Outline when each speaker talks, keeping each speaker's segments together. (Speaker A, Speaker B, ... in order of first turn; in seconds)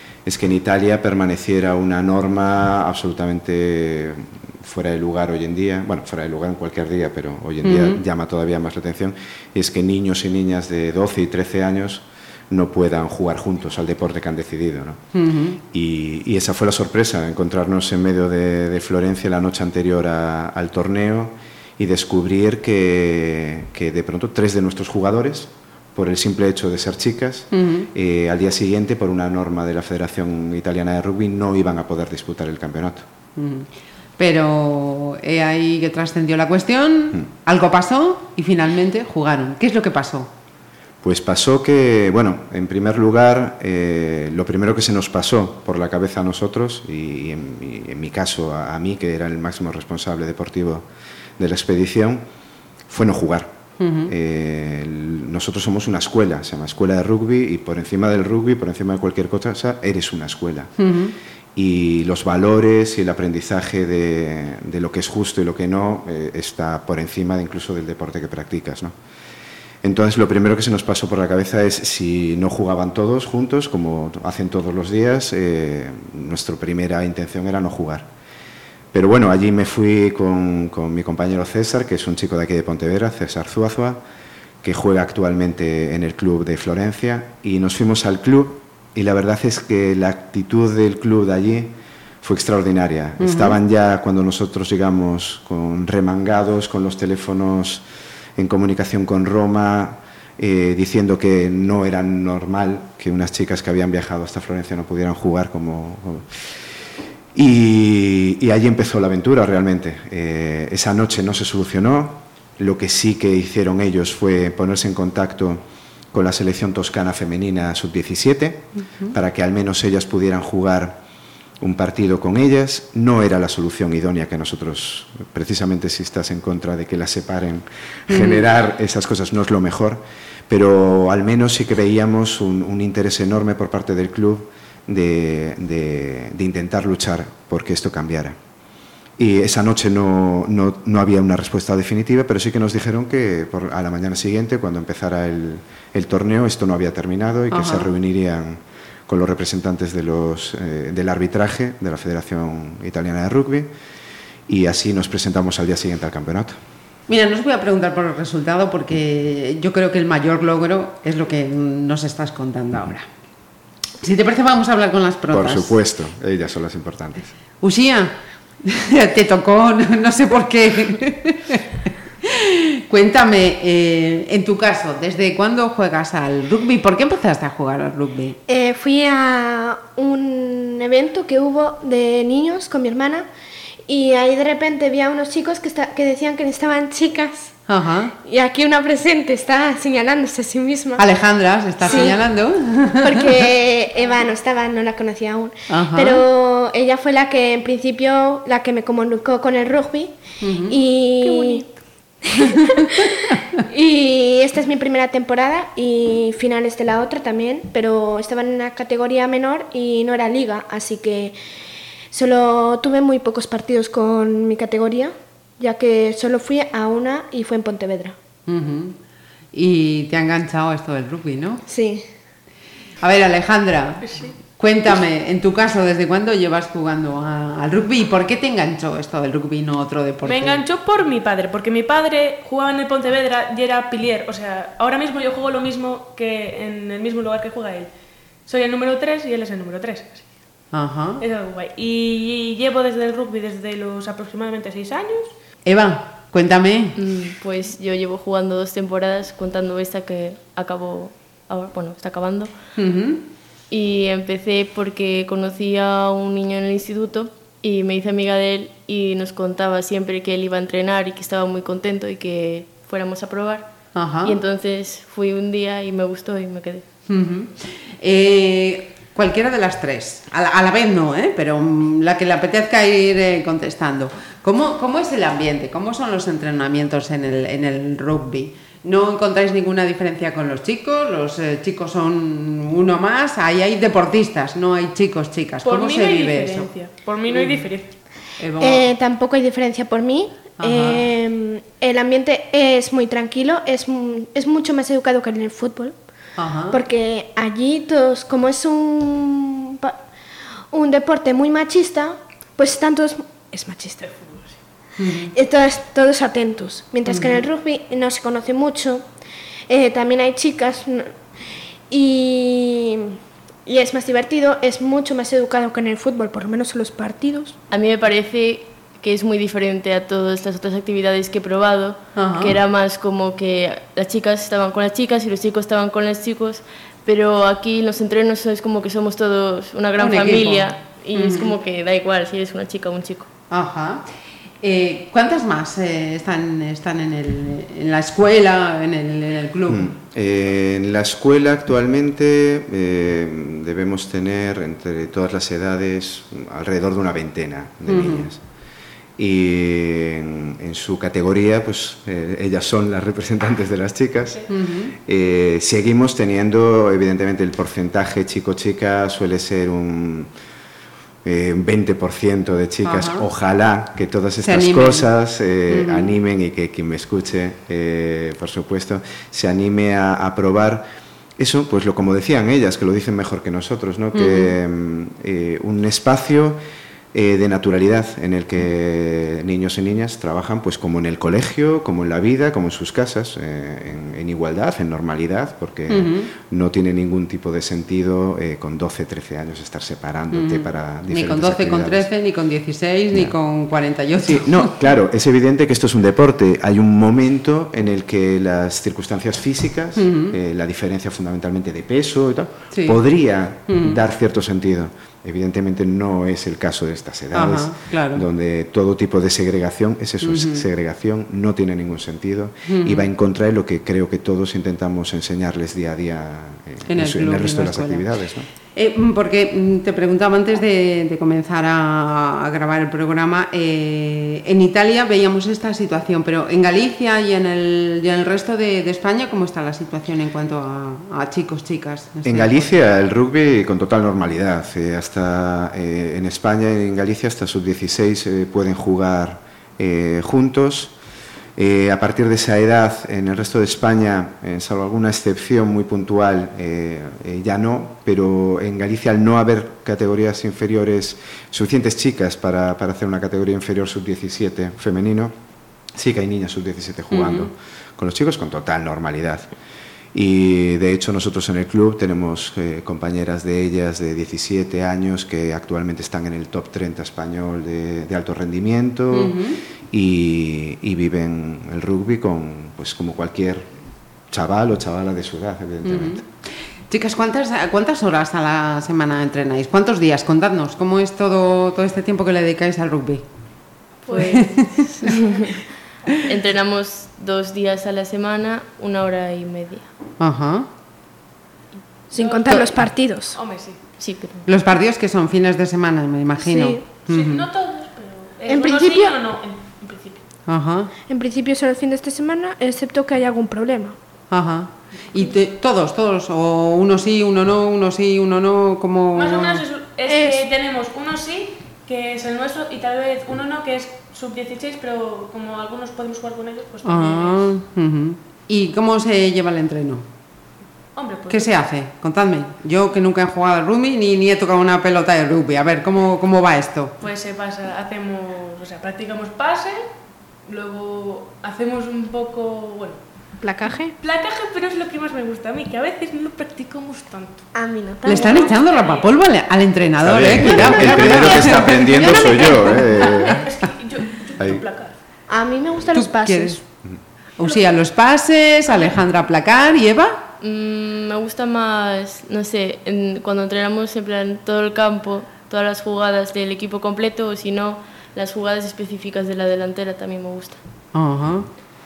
Speaker A: 0.2-15.0, 15.6-33.1, 41.0-50.9, 51.4-52.2, 52.9-60.7, 61.6-68.9, 69.8-78.1, 78.9-84.0, 84.6-97.8, 98.4-106.4, 107.3-121.0, 121.6-138.4, 139.2-153.7, 154.5-156.6, 165.3-167.3, 339.7-348.4, 349.2-354.5, 355.0-360.3, 361.2-370.9, 371.4-376.6, 377.1-392.1, 394.2-418.5, 432.2-440.9, 441.6-455.4, 455.9-459.5, 460.1-469.4, 469.9-473.7, 474.3-476.3, 540.0-543.5, 544.4-544.6
Speaker B: 7.6-8.0, 15.1-15.6, 27.5-27.9, 33.4-40.3, 53.8-54.1, 60.8-61.1, 93.2-93.6, 128.1-128.4, 147.5-147.9, 157.1-163.1, 164.0-165.8, 167.6-171.6, 172.2-178.4, 187.7-188.1, 191.0-193.5, 195.7-196.3, 200.4-200.8, 218.5-219.0, 219.5-221.6, 223.0-230.6, 240.7-241.2, 245.7-247.0, 252.8-253.2, 263.9-264.4, 267.1-286.7, 287.3-287.7, 288.4-288.9, 290.6-291.1, 296.4-296.8, 305.0-305.3, 307.1-307.4, 322.2-322.6, 330.0-331.5, 333.5-334.1, 334.6-339.9, 347.9-348.3, 354.5-355.0, 362.8-363.2, 364.4-365.1, 365.7-366.1, 374.1-374.5, 385.9-386.3, 390.3-394.7, 400.0-400.4, 402.7-403.0, 403.7-404.0, 407.3-408.2, 410.2-410.7, 412.7-413.1, 416.9-418.1, 418.7-432.7, 457.1-457.5, 469.1-469.6, 475.8-476.2, 476.9-483.2, 484.1-485.1, 490.2-490.7, 492.5-492.8, 494.5-497.5, 500.5-500.9, 504.3-509.6, 516.9-520.1, 521.3-527.0, 538.0-543.5, 545.9-546.6, 547.4-550.3, 560.9-561.6
Speaker C: 178.5-183.3, 183.9-187.6, 188.2-191.1, 191.8-192.2, 193.0-201.7, 202.2-211.4, 212.1-218.2, 221.7-222.0, 288.6-296.0, 296.7-300.0, 300.7-304.4, 305.3-309.0, 309.7-311.1, 311.9-317.6, 492.1-493.4, 496.4-496.8, 498.5-499.1, 501.1-504.0, 510.1-510.4, 533.4-533.9, 537.5-538.6, 540.5-542.4, 545.3-546.6
Speaker D: 201.2-201.7, 230.2-237.9, 238.5-240.3, 241.2-245.3, 285.6-288.0, 484.1-484.5, 492.1-493.8, 497.0-500.3, 509.1-517.5, 521.0-521.5, 527.0-529.9, 530.5-533.0, 534.0-537.5, 538.1-539.1, 541.1-544.9
Speaker E: 247.0-252.5, 253.7-266.9, 317.7-333.3, 484.1-485.6, 486.2-489.9, 494.0-494.5, 550.4-560.6